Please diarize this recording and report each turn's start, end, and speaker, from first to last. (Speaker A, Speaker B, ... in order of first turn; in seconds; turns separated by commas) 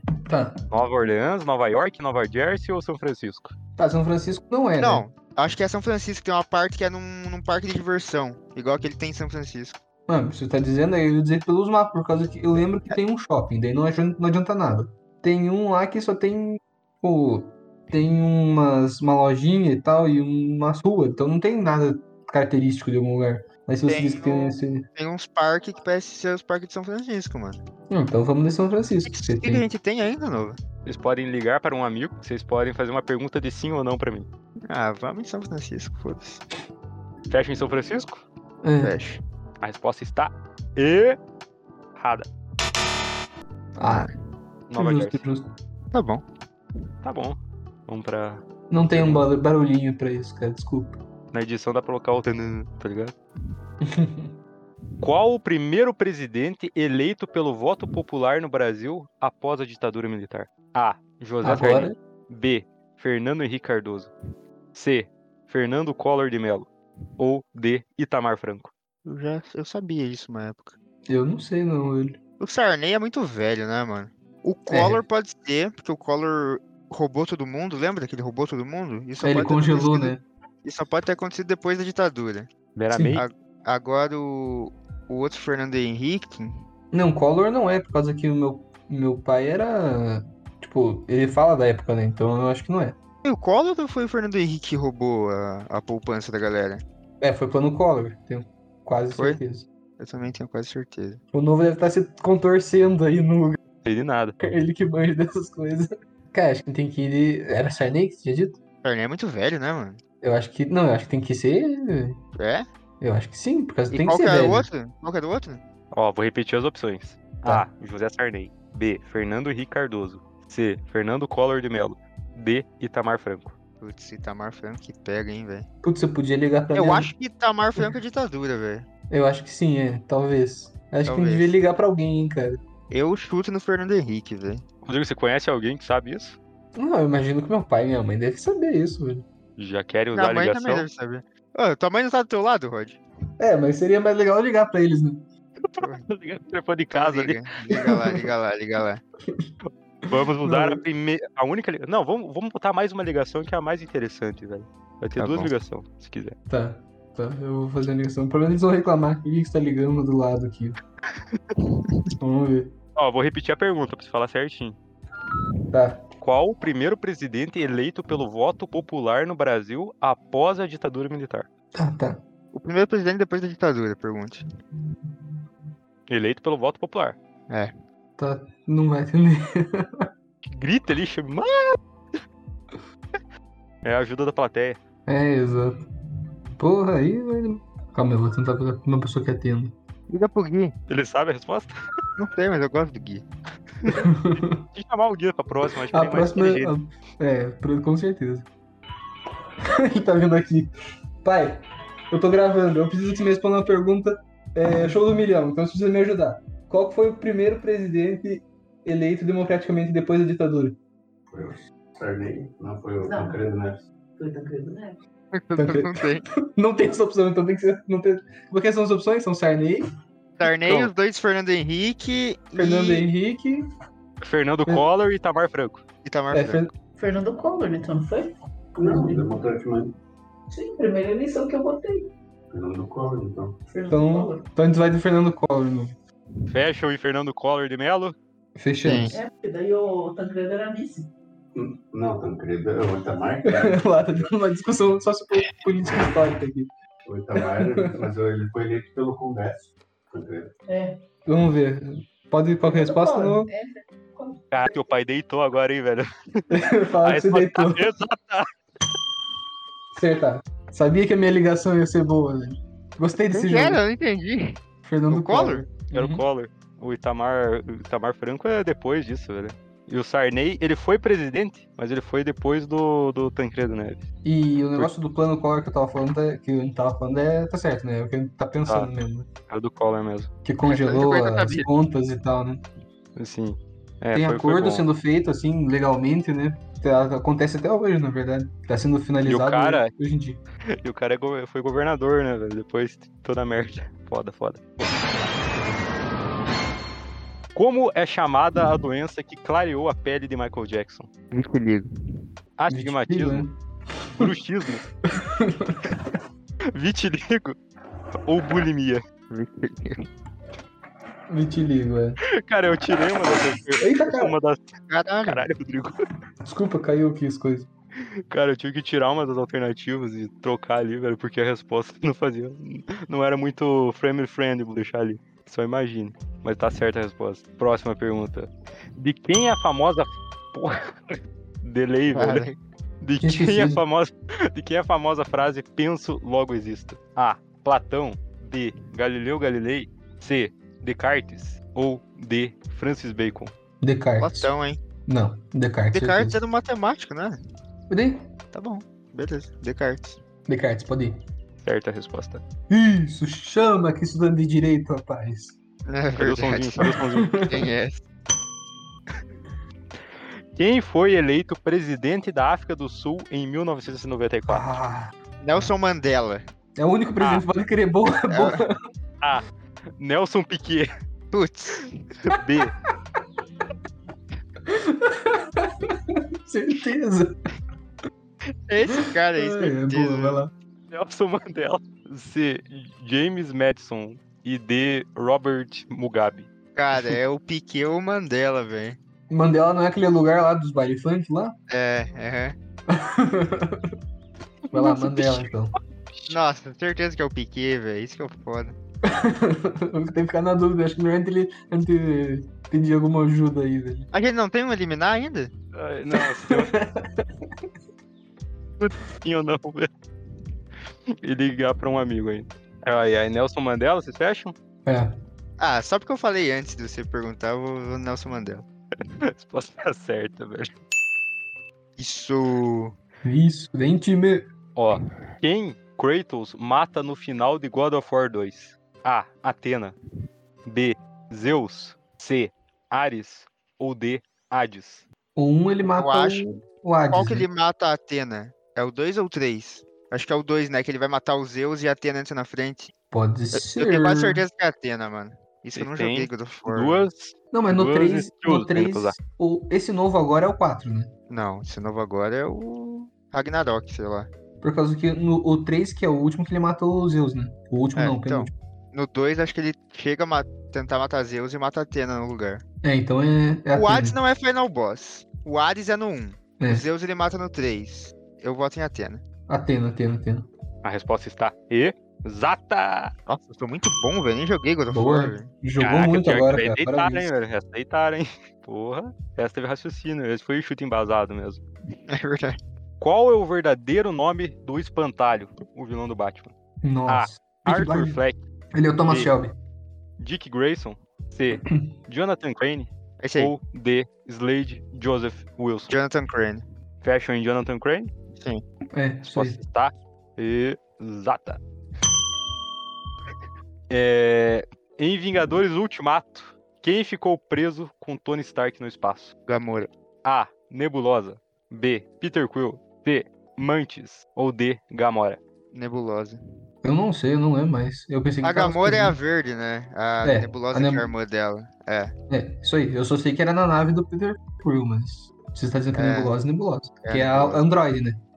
Speaker A: 0.2-0.6, Speaker B: 0.7-3.5, Speaker A: 3.8-5.0, Speaker C: 4.8-9.8, Speaker A: 10.1-24.8, Speaker C: 23.9-27.6, Speaker A: 27.9-29.6, Speaker C: 29.0-30.6, Speaker B: 30.8-34.3, Speaker C: 34.7-36.4, Speaker B: 37.3-38.2, Speaker A: 38.6-39.0, Speaker C: 38.8-39.2, Speaker B: 39.6-41.2, Speaker B: 42.0-42.3, Speaker A: 43.8-44.1, Speaker C: 43.8-44.1, Speaker B: 44.7-45.2, Speaker A: 44.7-45.5, Speaker C: 45.9-46.2, Speaker B: 47.0-49.2, Speaker A: 48.7-51.0, Speaker B: 51.3-53.1, Speaker A: 53.8-54.3, Speaker B: 55.0-64.1, Speaker A: 61.4-62.0, Speaker B: 64.7-68.7, Speaker C: 69.0-70.8, Speaker A: 71.1-72.2, Speaker C: 72.4-82.5, Speaker A: 74.7-75.0, Speaker A: 79.2-80.2, Speaker B: 82.8-83.2, Speaker A: 82.9-83.2, Speaker C: 83.1-86.7, Speaker A: 86.9-93.0, Speaker C: 93.2-96.8, Speaker A: 97.2-99.7, Speaker C: 99.1-99.4, Speaker C: 100.0-101.2, Speaker A: 101.3-103.6, Speaker B: 103.8-104.4, Speaker A: 104.4-108.6, Speaker C: 108.8-110.0, Speaker A: 110.2-112.2, Speaker C: 112.4-112.7, Speaker A: 113.0-114.7, Speaker C: 113.9-115.6, Speaker B: 115.9-123.5, Speaker C: 123.8-125.7, Speaker A: 125.8-127.1, Speaker C: 126.7-128.8, Speaker A: 129.1-132.6, Speaker C: 131.1-131.5, Speaker C: 132.9-134.6, Speaker B: 134.8-136.4, Speaker A: 136.7-139.2, Speaker B: 139.6-140.8, Speaker C: 140.1-143.0, Speaker A: 143.4-145.2, Speaker B: 145.6-147.4, Speaker C: 145.8-146.0, Speaker C: 146.9-149.0, Speaker A: 147.7-148.2, Speaker B: 150.1-156.3, Speaker A: 150.1-150.8, Speaker C: 155.2-155.5, Speaker A: 156.5-160.8, Speaker A: 162.2-162.7, Speaker B: 162.9-164.8, Speaker A: 165.7-166.1, Speaker B: 166.2-171.5, Speaker A: 171.7-172.2, Speaker C: 172.5-174.4, Speaker B: 176.1-177.2, Speaker A: 178.2-180.1, Speaker B: 180.4-181.8, Speaker B: 183.8-184.8, Speaker A: 185.1-185.8, Speaker A: 186.6-189.7, Speaker C: 190.1-190.7, Speaker B: 190.9-191.7, Speaker C: 192.2-193.2, Speaker A: 193.9-194.6, Speaker B: 194.7-196.7, Speaker A: 195.9-198.5, Speaker A: 199.6-210.8, Speaker D: 211.3-213.8, Speaker E: 213.0-213.4, Speaker E: 214.2-215.0, Speaker C: 215.3-216.2, Speaker A: 215.6-219.8, Speaker C: 220.4-223.1, Speaker B: 220.6-220.9, Speaker A: 222.6-223.6, Speaker B: 224.2-225.8, Speaker C: 226.0-226.6, Speaker A: 226.3-226.7, Speaker E: 226.9-229.3, Speaker D: 228.8-229.9, Speaker E: 230.5-232.1, Speaker D: 232.5-233.6, Speaker E: 233.7-234.4, Speaker A: 233.9-235.9, Speaker B: 236.5-238.2, Speaker A: 238.6-239.2, Speaker C: 238.8-239.1, Speaker E: 239.1-241.1, Speaker D: 241.5-244.0, Speaker A: 243.4-246.7, Speaker D: 247.1-250.5, Speaker A: 247.3-248.1, Speaker E: 250.7-251.0, Speaker A: 251.2-253.5, Speaker E: 252.6-254.7, Speaker B: 254.5-258.5, Speaker A: 256.5-257.9, Speaker A: 259.9-263.8, Speaker C: 263.3-265.6, Speaker A: 264.8-266.2, Speaker B: 265.9-274.0, Speaker A: 274.2-279.3, Speaker B: 278.6-278.9, Speaker B: 279.5-280.3, Speaker A: 280.4-282.6, Speaker C: 280.6-281.7, Speaker B: 283.1-284.9, Speaker A: 284.1-290.4, Speaker B: 289.2-289.9, Speaker B: 290.8-294.6, Speaker B: 297.5-301.1, Speaker C: 301.3-302.2, Speaker B: 302.6-303.5, Speaker A: 302.7-304.3, Speaker B: 304.1-304.9, Speaker A: 305.0-306.1, Speaker B: 306.7-307.6, Speaker B: 308.2-309.0, Speaker C: 309.3-310.1, Speaker A: 311.3-312.2, Speaker B: 312.3-314.6, Speaker A: 313.8-314.3, Speaker C: 314.9-315.5, Speaker B: 315.2-315.9, Speaker A: 316.4-317.7, Speaker B: 318.0-332.4, Speaker C: 332.1-332.6, Speaker B: 333.0-343.5, Speaker A: 333.2-333.8, Speaker A: 343.8-344.5, Speaker C: 344.2-344.8, Speaker A: 345.1-346.4, Speaker C: 345.9-347.4, Speaker A: 347.9-348.3, Speaker C: 348.5-350.2, Speaker A: 350.4-351.2, Speaker B: 351.6-352.4, Speaker A: 352.7-355.6, Speaker C: 355.9-358.0, Speaker B: 356.1-357.4, Speaker A: 357.2-357.7, Speaker B: 360.2-364.7, Speaker A: 364.5-365.1, Speaker C: 365.4-366.4, Speaker A: 366.8-368.7, Speaker B: 367.2-367.5, Speaker C: 368.3-368.6, Speaker B: 370.0-370.9, Speaker C: 371.3-372.0, Speaker B: 372.2-372.7, Speaker A: 374.6-377.4, Speaker C: 378.7-380.4, Speaker A: 379.3-380.5, Speaker B: 380.9-386.5, Speaker C: 386.8-389.0, Speaker A: 389.3-391.5, Speaker C: 391.7-392.6, Speaker A: 392.9-393.9, Speaker B: 394.7-395.4, Speaker A: 394.7-395.7, Speaker B: 396.1-396.4, Speaker C: 396.3-398.8, Speaker A: 399.0-404.1, Speaker C: 404.1-405.5, Speaker B: 405.7-406.7, Speaker A: 406.1-407.5, Speaker B: 408.8-409.9, Speaker B: 411.1-414.5, Speaker A: 414.9-415.1, Speaker C: 415.6-418.6, Speaker B: 419.2-420.7, Speaker C: 422.0-422.9, Speaker A: 423.2-424.4, Speaker B: 424.8-429.9, Speaker B: 430.6-435.1, Speaker A: 435.4-437.4, Speaker C: 435.9-436.4, Speaker C: 437.1-442.9, Speaker A: 443.1-444.4, Speaker C: 443.5-447.1, Speaker B: 445.8-449.2, Speaker A: 447.5-451.1, Speaker C: 451.3-454.3, Speaker A: 454.6-458.5, Speaker C: 457.9-462.6, Speaker A: 462.8-464.2, Speaker C: 463.7-469.2, Speaker A: 469.5-470.5, Speaker B: 470.8-473.1, Speaker C: 473.3-475.5, Speaker A: 474.9-477.3, Speaker B: 475.8-481.6, Speaker C: 482.0-482.6, Speaker B: 483.0-486.5, Speaker A: 486.8-488.2, Speaker B: 487.1-488.4, Speaker A: 488.7-489.5, Speaker B: 489.1-489.3, Speaker B: 490.2-495.9, Speaker C: 493.2-493.5, Speaker C: 495.9-496.6, Speaker B: 497.0-498.1, Speaker C: 498.4-498.6, Speaker A: 498.9-499.6, Speaker B: 499.2-501.6, Speaker B: 503.9-509.3, Speaker C: 509.5-509.9, Speaker B: 510.2-515.4, Speaker C: 515.7-516.4, Speaker A: 516.8-519.2, Speaker C: 518.4-522.1, Speaker A: 520.2-521.1, Speaker A: 522.3-528.2, Speaker C: 525.9-526.4, Speaker C: 527.0-527.6